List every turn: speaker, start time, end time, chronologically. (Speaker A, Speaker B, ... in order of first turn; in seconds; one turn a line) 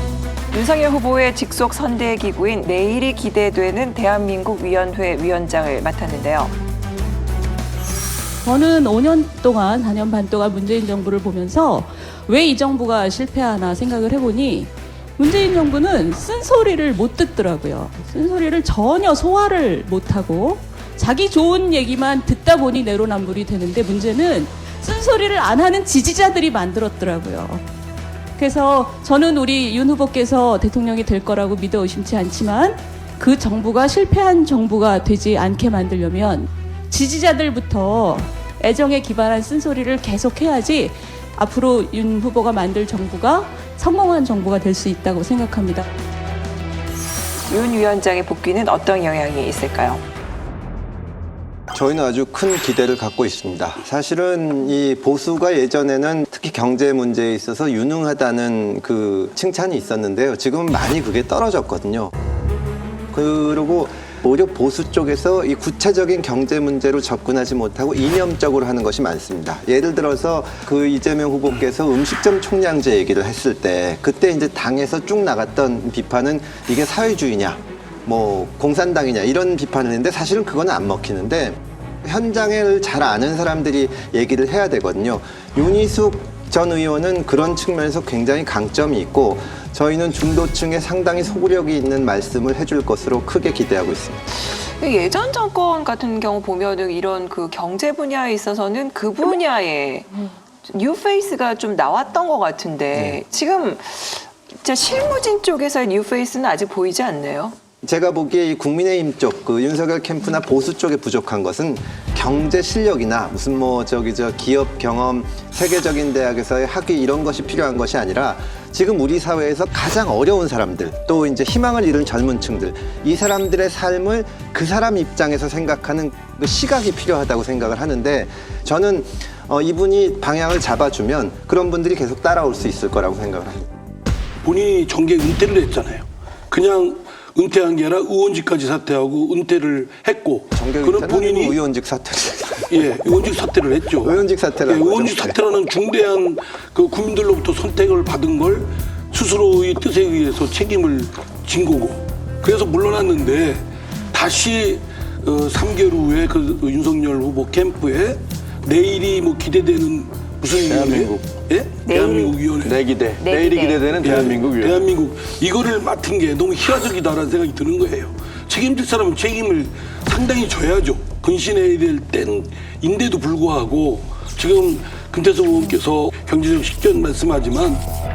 Speaker A: 0.5-6.5
Speaker B: 8.4-27.6
Speaker B: 28.4-45.8
Speaker A: 47.5-50.0
Speaker C: 51.7-62.1
Speaker C: 63.1-94.2
Speaker A: 94.4-107.5
Speaker C: 107.8-133.7
Speaker D: 134.4-141.6
Speaker C: 140.5-142.9
Speaker D: 142.7-162.8
Speaker C: 144.0-145.6
Speaker E: 160.7-161.2
Speaker A: 161.8-162.6
Speaker E: 162.6-164.8
Speaker A: 163.1-164.0
Speaker D: 164.0-177.8